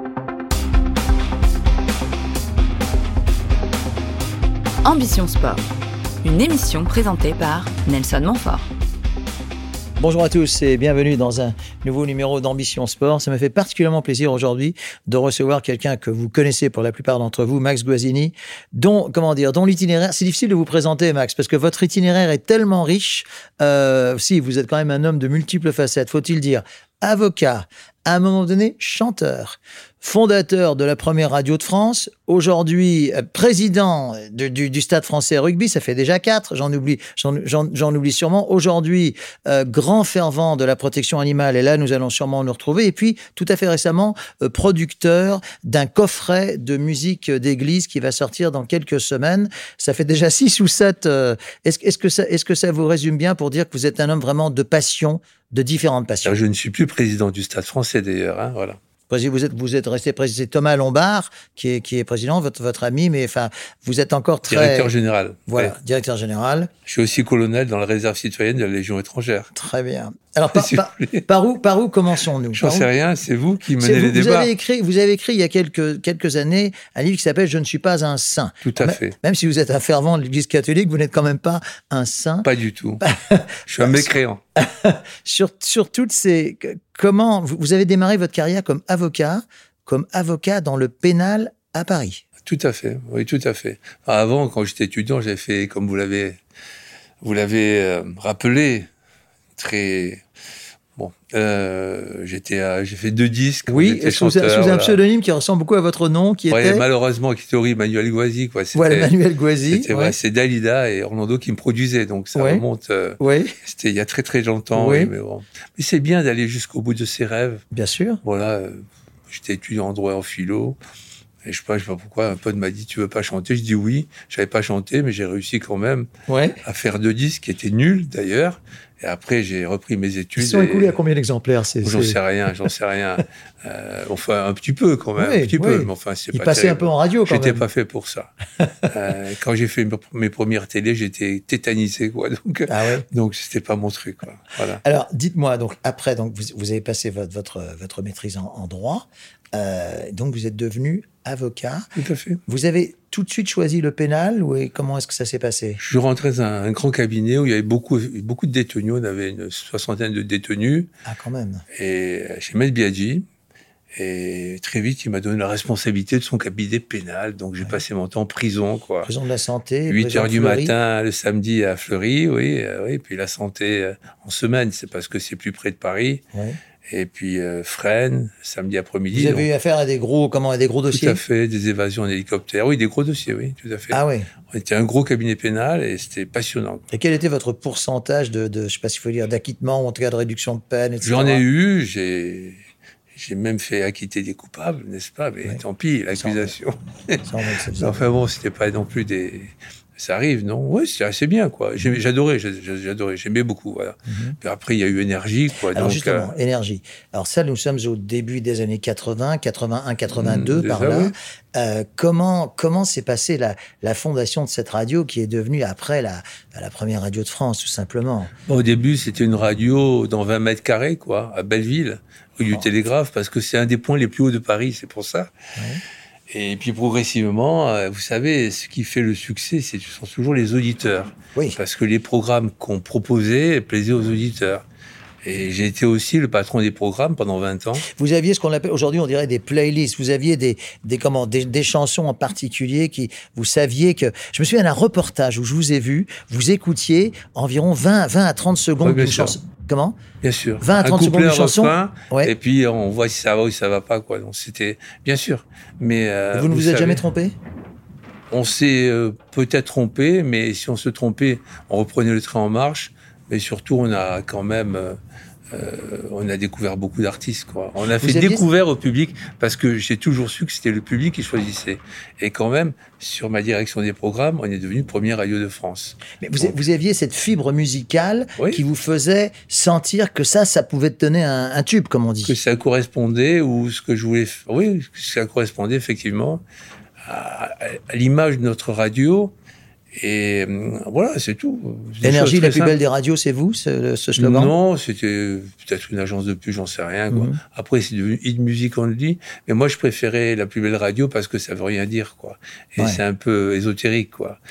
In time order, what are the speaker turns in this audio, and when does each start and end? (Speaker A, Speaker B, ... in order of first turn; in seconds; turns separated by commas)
Speaker A: 4.8-5.7, Speaker A: 6.2-8.7, Speaker B: 10.0-56.4, Speaker C: 56.2-58.8, Speaker B: 59.1-64.9, Speaker C: 64.5-65.7, Speaker B: 65.5-66.7, Speaker C: 66.9-69.5, Speaker B: 69.5-72.9, Speaker C: 70.5-71.2, Speaker C: 72.5-74.5, Speaker B: 73.8-82.5, Speaker C: 78.6-79.2, Speaker C: 82.4-83.0, Speaker B: 83.0-92.2, Speaker C: 83.7-84.4, Speaker C: 92.5-96.4, Speaker C: 97.2-98.9, Speaker C: 99.6-100.2, Speaker C: 101.0-105.0, Speaker B: 103.7-106.8, Speaker C: 106.5-109.1, Speaker B: 108.8-110.1, Speaker C: 109.7-117.6, Speaker B: 112.3-112.6, Speaker B: 113.2-113.6, Speaker B: 114.8-115.1, Speaker B: 117.7-118.2, Speaker C: 118.2-120.8, Speaker C: 121.4-126.1, Speaker B: 126.3-126.6, Speaker C: 126.6-131.0, Speaker B: 130.4-132.2, Speaker C: 131.8-138.3, Speaker B: 135.2-137.6, Speaker B: 138.6-138.9, Speaker C: 138.9-144.8, Speaker B: 142.7-143.1, Speaker B: 144.8-151.9, Speaker C: 152.0-152.4, Speaker B: 152.5-155.8, Speaker C: 155.8-160.9, Speaker B: 161.0-161.7, Speaker C: 161.7-163.3, Speaker C: 164.0-169.1, Speaker B: 169.0-170.7, Speaker C: 169.9-176.2, Speaker C: 176.9-179.5, Speaker B: 179.1-181.2, Speaker C: 180.9-184.0, Speaker B: 183.9-184.3, Speaker C: 184.5-186.8, Speaker B: 186.9-191.4, Speaker C: 191.0-192.6, Speaker C: 193.2-197.2, Speaker B: 196.2-196.5, Speaker B: 197.2-198.1, Speaker C: 197.8-206.3, Speaker B: 204.1-204.3, Speaker B: 205.6-218.3, Speaker C: 210.1-211.1, Speaker C: 218.5-225.3, Speaker B: 225.6-225.8, Speaker C: 226.3-234.7, Speaker C: 235.2-237.9, Speaker B: 237.8-250.0, Speaker C: 248.8-249.3, Speaker C: 250.2-257.0, Speaker B: 250.6-252.3, Speaker B: 256.3-257.4, Speaker C: 258.3-265.0, Speaker C: 265.5-276.5, Speaker B: 268.0-268.4, Speaker B: 276.2-282.3, Speaker C: 278.4-278.6, Speaker C: 282.2-286.4, Speaker C: 287.0-289.3, Speaker C: 289.9-292.8, Speaker B: 292.0-294.5, Speaker C: 294.2-304.4, Speaker B: 297.1-297.4